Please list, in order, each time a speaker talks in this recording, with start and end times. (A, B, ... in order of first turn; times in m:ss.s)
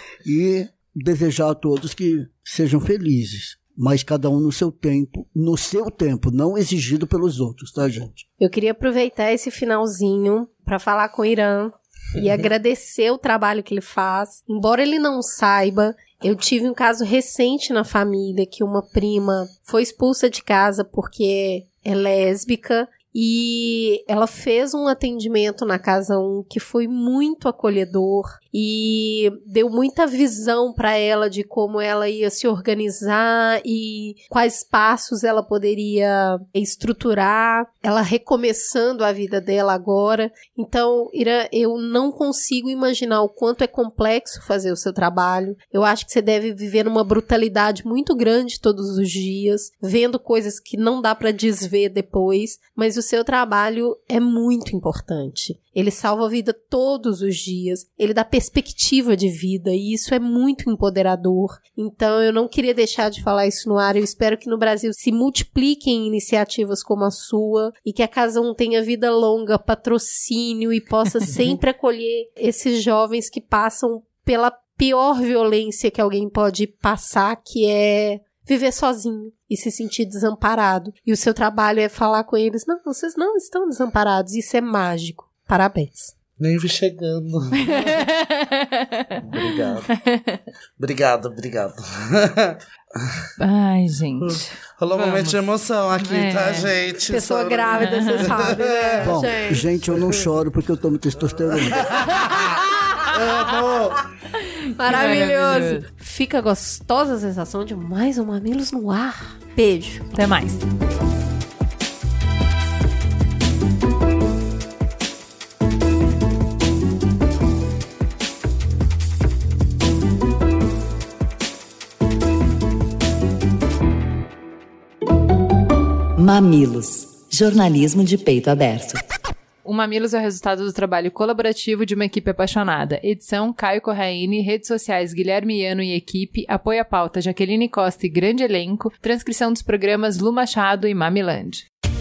0:00.2-0:08.2 A
0:08.4-1:26.1 B
1:26.4-1:28.0 C
1:27.7-1:29.2 D
1:29.2-1:29.9 C
1:30.0-1:30.4 D
1:30.8-1:33.3 C
1:33.4-1:35.4 D
1:34.3-1:39.2 C
1:36.0-1:36.7 D
1:37.1-1:39.7 B
1:37.8-1:38.3 D
1:39.0-1:42.1 A
1:41.8-1:44.0 C
1:42.2-1:42.6 B
1:44.8-1:50.1 B
1:44.8-1:45.8 D
1:50.1-1:50.6 D
2:06.2-2:09.0 E
2:09.6-2:21.6 D